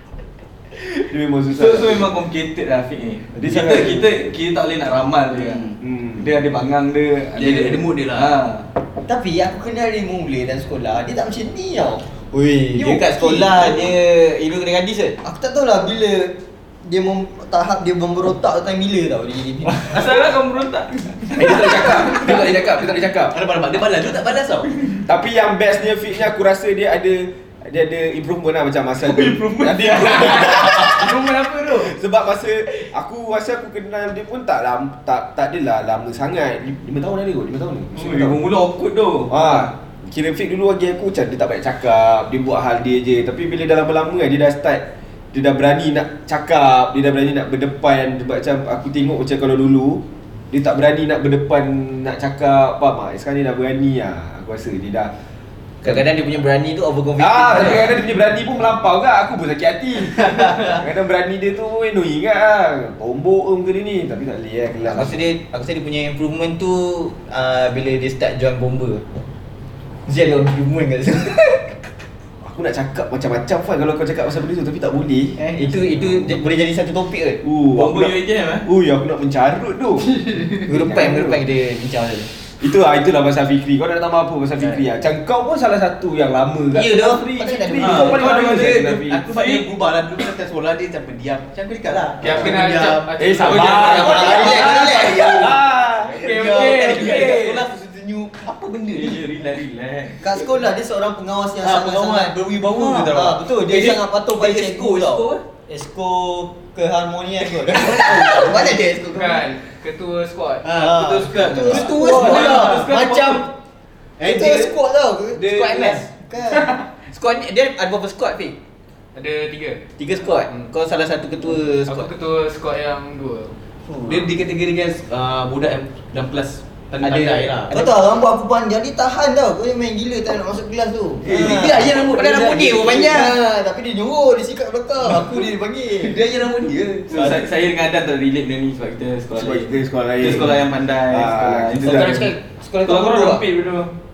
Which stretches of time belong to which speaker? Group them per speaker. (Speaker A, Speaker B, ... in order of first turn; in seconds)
Speaker A: 1.0-2.1, 3.4-4.1, 5.8-6.3, 21.3-23.4, 25.1-38.4, 39.3-55.1, 57.2-65.2, 72.4-75.4, 77.4-81.4, 82.6-89.2, 93.2-96.5, 139.3-142.2
Speaker B: 1.6-8.7, 19.8-21.7, 29.0-31.9, 38.0-39.7, 77.7-78.7, 87.8-89.7, 93.7-95.5, 96.6-97.6, 98.9-100.2, 112.0-113.5, 131.3-131.7, 137.1-143.9
Speaker C: 5.4-5.8, 7.4-8.4, 23.3-24.9, 87.8-95.4, 96.1-97.7, 98.3-99.2, 101.6-105.4, 110.6-112.8, 114.2-114.7, 124.0-127.9, 131.3-133.3, 135.1-135.4, 136.0-137.3
Speaker D: 9.1-12.1, 12.7-13.5, 15.2-20.0, 91.9-92.5, 93.8-95.5, 96.2-98.4, 100.2-109.3, 110.7-113.4, 114.2-116.8, 127.7-136.2, 137.1-137.4
Speaker E: 12.3-15.2, 55.8-57.9, 64.9-69.0, 70.1-71.7, 75.4-77.4, 80.6-82.3, 86.7-88.2, 93.9-95.4, 101.9-102.2, 102.8-103.1, 107.5-109.4, 111.4-113.4, 115.3-118.6, 120.0-122.1, 123.9-124.3, 127.0-129.5, 130.2-130.6, 131.2-133.9, 134.9-136.1, 141.8-143.4
Speaker F: 92.2-94.4, 96.1-97.2, 109.1-111.9, 119.2-120.7, 121.9-123.5